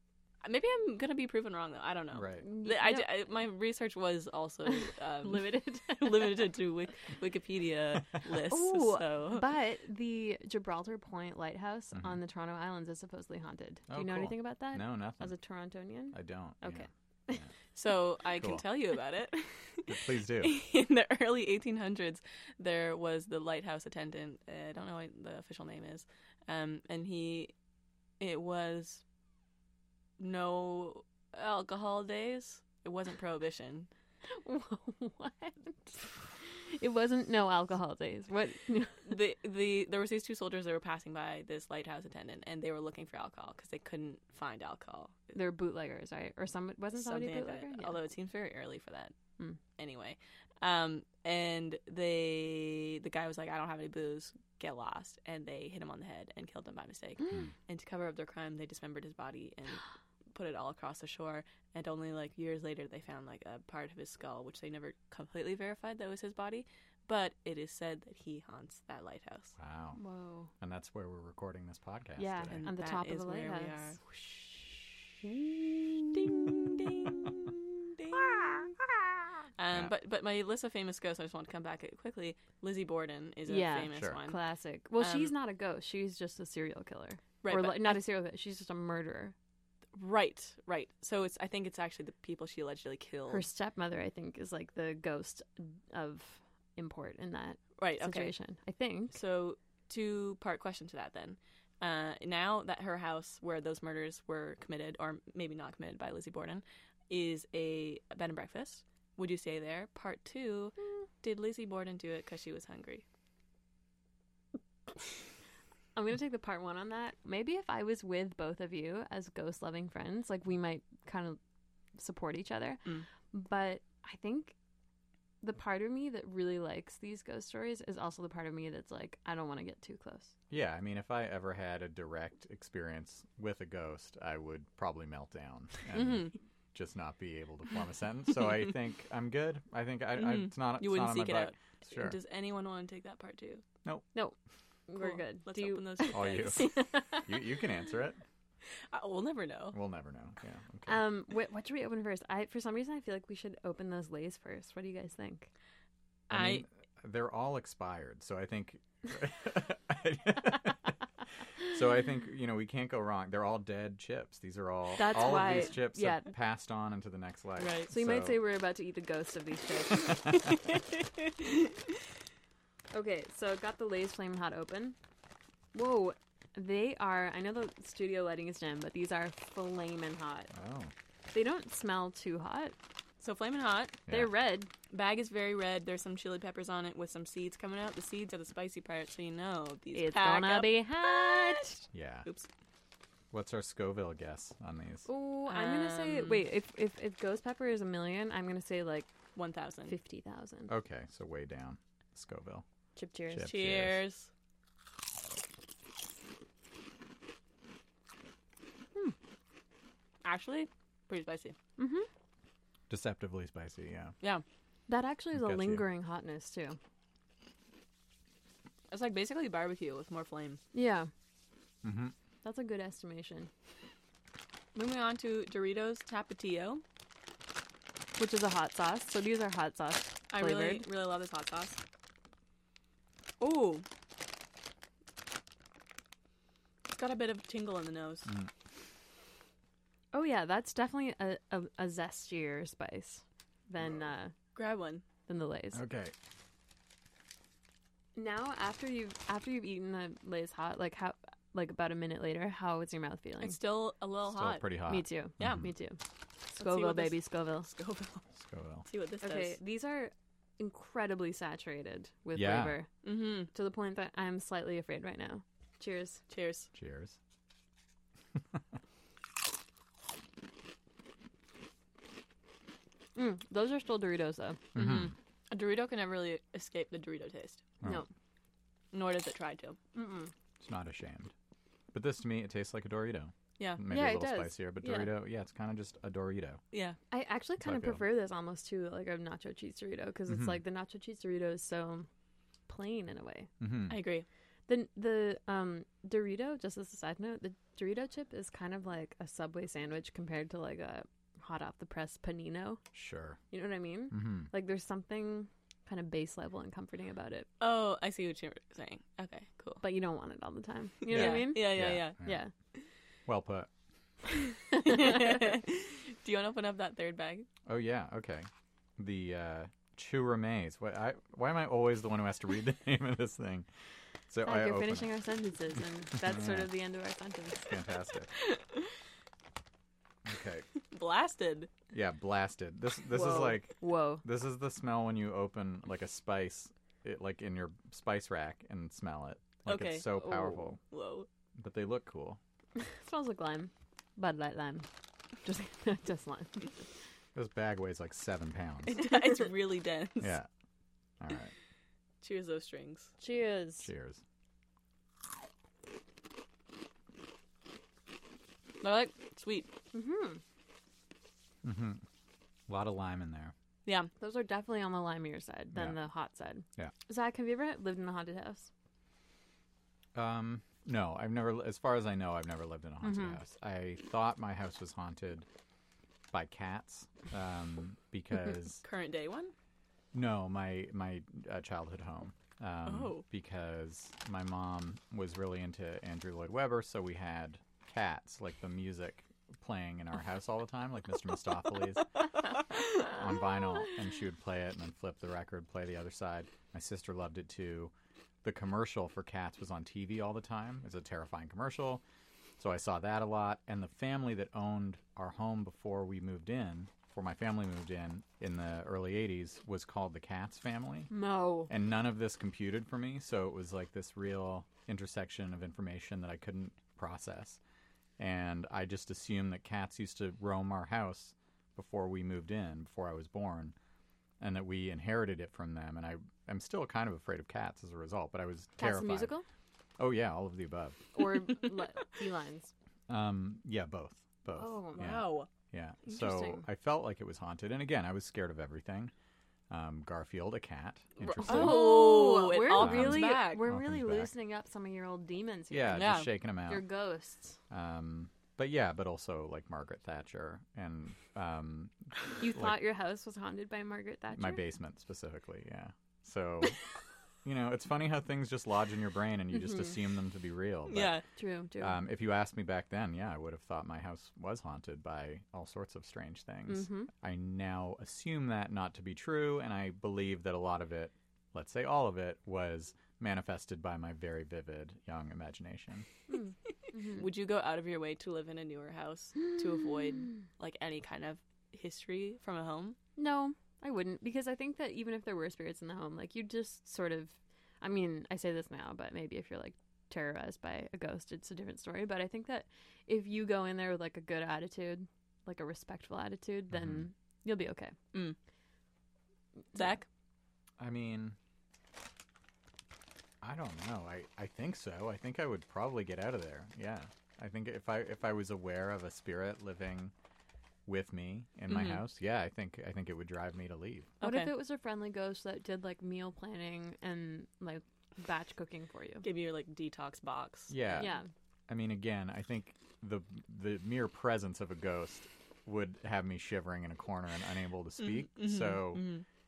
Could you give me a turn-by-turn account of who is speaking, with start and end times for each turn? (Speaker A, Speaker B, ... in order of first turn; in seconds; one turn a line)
Speaker A: 0.4-9.4
Speaker B: 2.1-2.5
Speaker C: 2.4-3.1
Speaker C: 4.7-6.4
Speaker C: 8.5-17.4
Speaker B: 11.9-12.2
Speaker B: 13.9-15.3
Speaker B: 16.1-17.5
Speaker A: 17.8-27.5
Speaker B: 18.4-18.6
Speaker B: 19.9-20.6
Speaker A: 28.2-29.0
Speaker A: 30.2-33.9
Speaker C: 34.3-39.1
Speaker A: 39.1-45.3
Speaker C: 45.3-48.0
Speaker A: 47.0-49.1
Speaker A: 49.8-69.5
Speaker B: 69.6-70.0
Speaker C: 70.0-70.5
Speaker B: 70.6-72.6
Speaker C: 72.2-76.1
Speaker A: 72.5-74.0
Speaker A: 76.1-78.7
Speaker A: 79.6-84.4
Speaker C: 83.5-89.3
Speaker B: 83.9-84.2
Speaker A: 85.0-85.3
Speaker A: 87.4-88.0
Speaker A: 90.0-93.5
Speaker C: 93.3-99.2
Speaker A: 97.8-98.3
Speaker A: 99.1-113.0
Speaker C: 116.0-121.4
Speaker C: 122.0-124.5
Speaker C: 125.4-130.3
Speaker B: 130.5-142.2
Speaker A: 135.9-136.3
Speaker A: 140.2-143.6
Speaker C: 144.9-147.3
Speaker A: 145.0-146.8
Speaker B: 146.1-148.2
Speaker A: 148.9-149.8
Speaker B: 149.7-151.1
Speaker C: 150.9-155.5
Speaker A: 156.3-156.6
Speaker B: 156.3-160.9
Speaker B: 161.7-168.4
Speaker C: 165.0-166.3
Speaker A: 167.6-167.9
Speaker C: 167.9-170.4
Speaker C: 172.9-175.0
Speaker C: 175.7-180.5
Speaker B: 180.5-180.9
Speaker C: 181.3-182.8
Speaker A: 183.2-184.0
Speaker B: 184.1-184.3
Speaker C: 184.1-184.7
Speaker A: 184.9-192.5
Speaker C: 189.9-191.8
Speaker B: 191.9-192.3
Speaker B: 193.3-195.1
Speaker C: 195.1-199.1
Speaker A: 195.5-196.4
Speaker A: 199.3-199.9
Speaker C: 199.9-200.7
Speaker B: 200.7-202.7
Speaker C: 203.0-203.6
Speaker B: 203.3-204.0
Speaker A: 203.5-204.3
Speaker A: 210.2-211.6
Speaker C: 211.8-212.1
Speaker B: 212.9-214.2
Speaker C: 214.9-216.8
Speaker B: 215.3-215.9
Speaker A: 218.9-220.6
Speaker C: 220.7-221.1
Speaker B: 221.8-222.2
Speaker C: 222.4-223.5
Speaker A: 224.7-226.8
Speaker C: 228.2-230.9
Speaker A: 230.3-231.8
Speaker A: 233.4-233.8
Speaker A: 236.9-238.3
Speaker B: 238.3-238.5
Speaker C: 240.1-244.3
Speaker A: 244.6-245.0
Speaker C: 245.3-245.8
Speaker B: 245.7-246.2
Speaker C: 248.2-253.6
Speaker A: 253.4-254.7
Speaker B: 254.3-255.7
Speaker C: 254.9-256.0
Speaker C: 256.5-257.7
Speaker A: 256.6-258.3
Speaker B: 258.4-258.9
Speaker A: 258.9-259.6
Speaker C: 259.2-262.9
Speaker B: 262.4-262.8
Speaker A: 263.0-263.5
Speaker C: 263.5-266.2
Speaker A: 266.3-266.7
Speaker B: 266.7-267.2
Speaker C: 273.2-274.6
Speaker B: 274.8-275.1
Speaker A: 274.8-277.6
Speaker A: 278.9-279.8
Speaker C: 279.9-280.3
Speaker B: 280.6-281.3
Speaker B: 281.9-286.6
Speaker C: 283.9-285.1
Speaker A: 286.7-287.0
Speaker C: 287.1-292.1
Speaker B: 287.6-288.1
Speaker B: 290.3-290.6
Speaker C: 292.7-293.5
Speaker B: 293.6-294.0
Speaker A: 293.9-294.3
Speaker C: 294.7-302.8
Speaker B: 302.9-303.4
Speaker C: 303.5-307.5
Speaker B: 304.1-304.5
Speaker A: 307.6-309.8
Speaker C: 309.8-312.5
Speaker A: 311.1-312.2
Speaker B: 311.1-312.4
Speaker B: 313.3-313.7
Speaker C: 314.7-315.4
Speaker A: 314.7-317.5
Speaker B: 317.7-323.7
Speaker B: 324.3-325.1
Speaker C: 324.4-327.7
Speaker B: 326.1-326.7
Speaker B: 327.7-328.3
Speaker A: 328.6-328.8
Speaker B: 330.2-330.7
Speaker A: 330.9-331.7
Speaker B: 331.9-340.8
Speaker C: 333.2-334.2
Speaker A: 333.2-333.6
Speaker A: 339.7-341.3
Speaker B: 341.6-342.4
Speaker C: 342.8-344.9
Speaker C: 345.4-346.7
Speaker B: 347.4-349.0
Speaker A: 348.9-350.4
Speaker B: 350.2-350.5
Speaker B: 351.2-351.5
Speaker A: 352.2-353.1
Speaker C: 353.2-353.9
Speaker B: 353.8-354.2
Speaker A: 358.8-359.7
Speaker C: 359.9-360.4
Speaker B: 361.6-362.0
Speaker B: 362.7-363.5
Speaker C: 364.2-368.7
Speaker B: 365.7-366.0
Speaker B: 370.1-375.5
Speaker C: 373.0-373.4
Speaker B: 376.3-378.8
Speaker A: 378.8-379.5
Speaker B: 380.1-392.1
Speaker A: 382.9-383.2
Speaker B: 392.9-397.9
Speaker B: 398.4-402.0
Speaker B: 402.6-411.1
Speaker C: 411.1-411.7
Speaker B: 411.7-417.6
Speaker B: 418.2-423.8
Speaker B: 424.4-429.3
Speaker C: 428.8-429.4
Speaker B: 430.0-431.2
Speaker C: 431.1-432.7
Speaker B: 433.1-439.1
Speaker C: 434.5-435.1
Speaker A: 435.0-435.5
Speaker C: 436.1-436.6
Speaker B: 439.7-442.1
Speaker A: 441.3-443.7
Speaker C: 441.4-446.1
Speaker B: 442.7-444.3
Speaker B: 445.7-446.9
Speaker A: 445.9-446.3
Speaker C: 446.7-447.6
Speaker B: 447.7-452.8
Speaker C: 452.4-454.6
Speaker B: 454.3-456.8
Speaker B: 457.4-461.2
Speaker C: 459.6-459.9
Speaker A: 460.9-461.2
Speaker C: 461.4-462.0
Speaker B: 461.8-476.1
Speaker C: 466.7-467.1
Speaker C: 476.3-477.3
Speaker A: 477.1-483.0
Speaker C: 483.2-497.9
Speaker B: 496.7-497.1
Speaker A: 499.8-500.1
Speaker B: 500.8-501.4
Speaker B: 503.4-510.1
Speaker B: 510.9-514.1
Speaker A: 511.7-512.0
Speaker A: 514.2-514.5
Speaker C: 514.2-519.2
Speaker A: 519.2-521.1
Speaker B: 520.7-521.1
Speaker C: 521.0-521.3
Speaker B: 521.7-529.1
Speaker A: 528.0-529.2